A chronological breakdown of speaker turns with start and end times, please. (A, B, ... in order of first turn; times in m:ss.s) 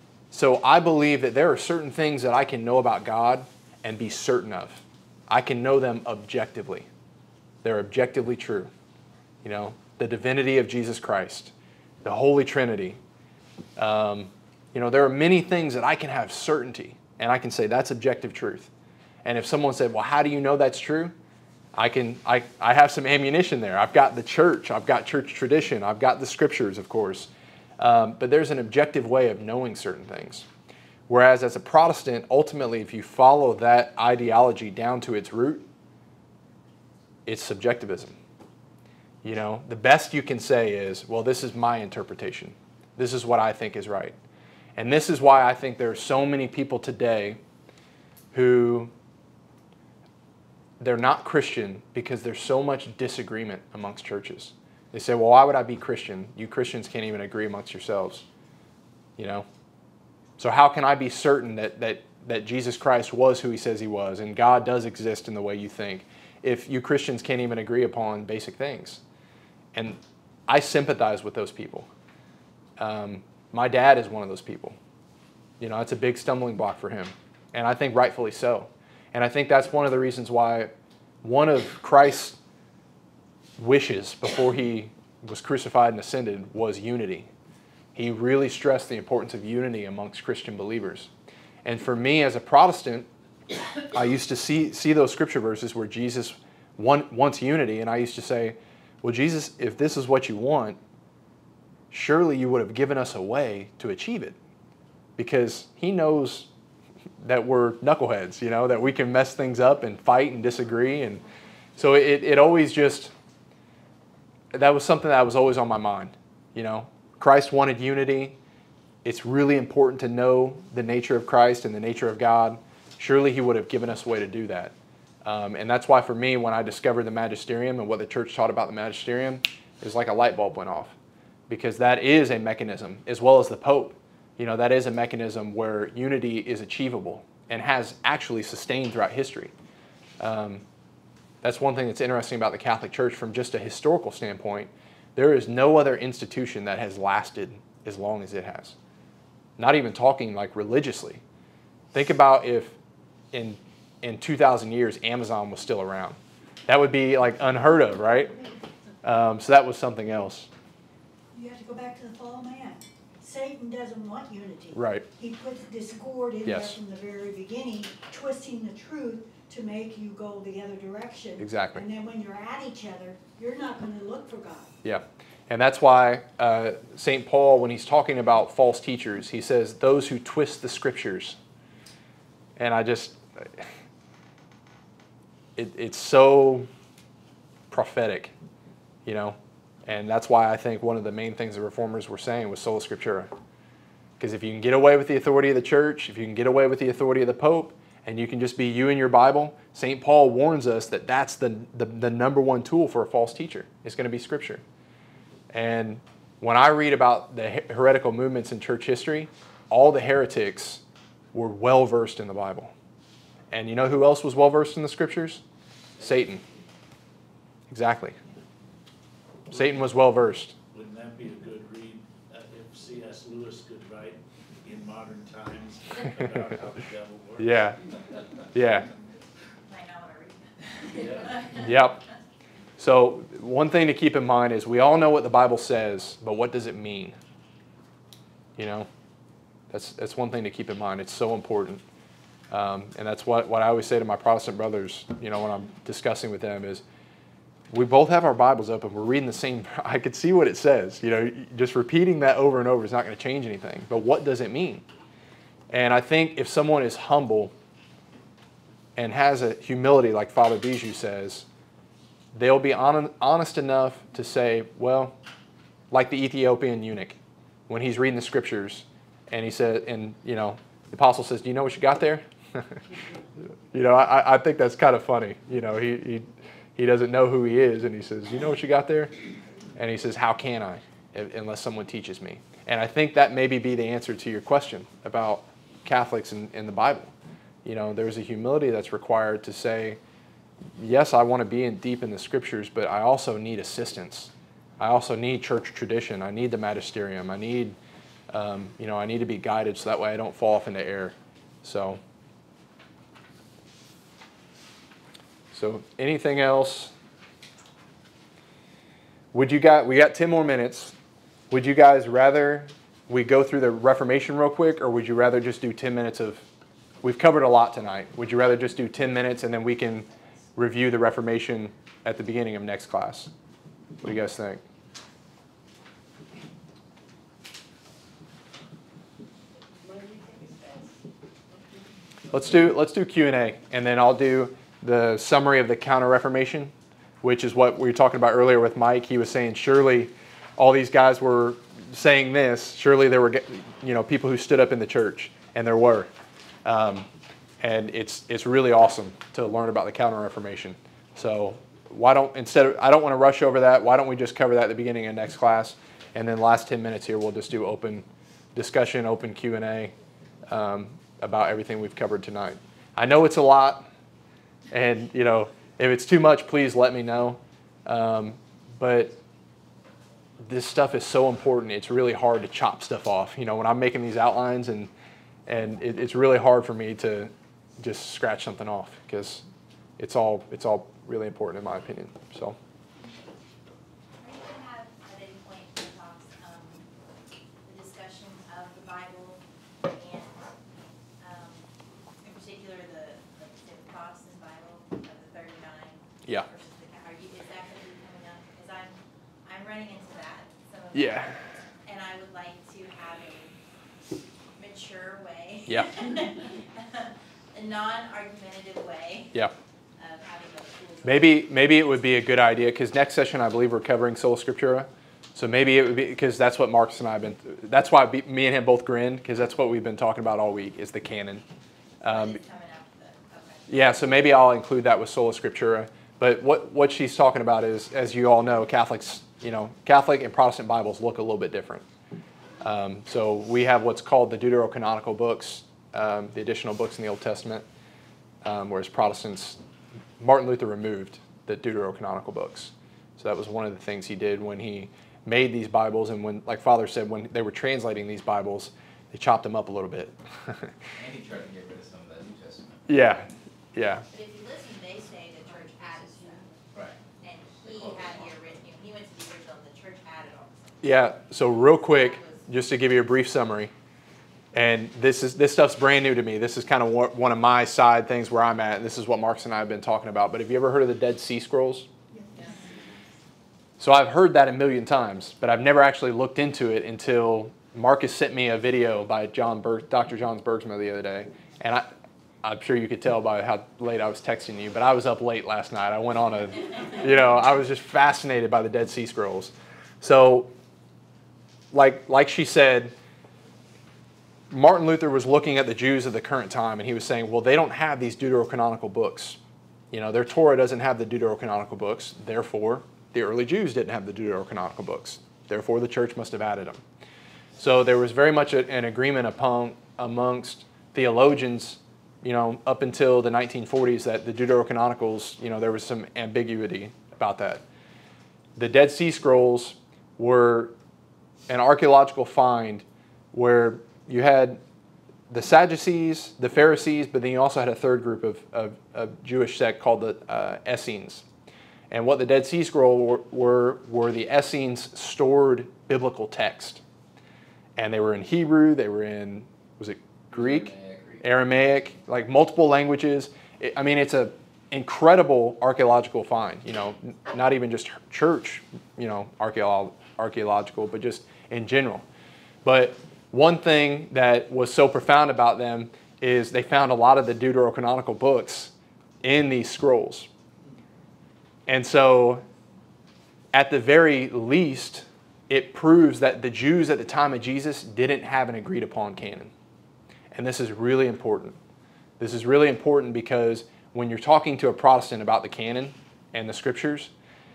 0:00.3-0:06.9 A
0:07.6-0:08.7 A
0:09.4-0:11.5 A
0:12.0-0:13.0 A
0:13.8-0:18.7 A
0:19.2-0:21.1 A
0:21.7-0:30.5 A
0:31.1-0:35.7 A
0:37.2-0:38.2 A
0:39.2-0:44.2 A
0:44.8-0:47.4 A
0:48.3-0:48.9 A
0:50.8-0:58.2 A
0:59.2-0:59.4 A
1:00.4-1:09.0 A
1:09.7-1:11.9 A
1:12.8-1:14.8 A
1:15.6-1:20.7 A
1:21.2-1:22.4 A
1:23.6-1:27.3 A
1:27.9-1:31.1 A
1:31.6-1:33.1 A
1:33.9-1:40.8 A
1:41.9-1:44.4 A
1:45.2-1:46.5 A
1:47.2-1:51.2 A
1:51.8-1:53.1 A
1:54.5-1:58.4 A
1:59.0-2:10.9 A
2:11.5-2:19.5 A
2:20.2-2:20.6 A
2:21.4-2:28.8 A
2:29.6-2:31.2 A
2:31.9-2:32.8 A
2:33.3-2:38.3 A
2:39.0-2:40.5 A
2:41.3-2:54.7 B
2:44.7-2:45.0 A
2:46.4-2:46.8 A
2:51.4-2:51.8 A
2:54.8-3:01.4 A
3:02.6-3:03.7 A
3:05.6-3:06.7 A
3:07.7-3:08.3 A
3:09.0-3:13.3 A
3:14.2-3:24.6 A
3:25.5-3:32.7 A
3:33.5-3:35.4 A
3:36.0-3:36.4 A
3:37.7-3:38.2 A
3:39.5-3:40.0 C
3:39.5-3:40.5 A
3:40.7-3:48.4 C
3:47.4-3:47.8 A
3:48.5-3:48.9 A
3:49.7-3:51.6 D
3:50.9-3:51.6 C
3:51.6-3:52.0 A
3:52.8-3:57.2 A
3:58.6-3:58.9 A
3:59.7-4:01.8 A
4:02.5-4:06.8 A
4:07.7-4:14.8 A
4:15.7-4:17.5 A
4:19.0-4:21.5 A
4:22.3-4:25.2 A
4:25.9-4:32.8 A
4:33.7-4:39.1 A
4:39.7-4:47.1 A
4:47.6-4:50.0 A
4:50.8-4:57.8 A
4:58.3-5:02.0 A
5:05.5-5:06.9 A
5:09.3-5:10.9 A
5:11.5-5:16.4 A
5:17.0-5:23.3 A
5:24.0-5:24.6 A
5:29.8-5:30.9 B
5:32.3-5:46.1 A
5:46.6-5:47.1 A
5:47.6-5:59.9 A
6:00.5-6:03.9 A
6:04.7-6:09.2 A
6:10.4-6:14.9 A
6:15.4-6:19.4 A
6:20.0-6:22.6 A
6:24.2-6:26.9 D
6:27.6-6:30.5 D
6:31.2-6:31.7 D
6:32.2-6:43.5 D
6:40.9-6:41.3 A
6:44.6-6:51.6 D
6:45.7-6:45.9 A
6:51.0-7:01.4 A
7:02.0-7:02.4 A
7:02.0-7:03.6 D
7:03.7-7:11.8 A
7:12.6-7:17.6 A
7:18.4-7:19.6 A
7:20.2-7:30.7 A
7:30.9-7:32.8 E
7:32.9-7:34.0 A
7:34.1-7:36.5 D
7:36.7-7:37.0 E
7:37.2-7:42.5 D
7:37.6-7:38.2 E
7:40.8-7:43.7 A
7:44.5-7:51.9 A
7:53.8-8:01.9 A
8:02.4-8:10.5 A
8:11.7-8:12.9 A
8:14.5-8:19.4 A
8:19.9-8:26.8 A
8:27.6-8:37.6 A
8:38.6-8:40.7 A
8:41.5-8:44.6 A
8:45.3-8:51.2 A
8:51.9-8:56.8 A
8:57.8-9:12.0 A
9:00.3-9:01.2 E
9:12.6-9:20.3 A
9:21.7-9:22.4 A
9:23.5-9:29.5 A
9:30.3-9:31.6 A
9:32.2-9:37.1 A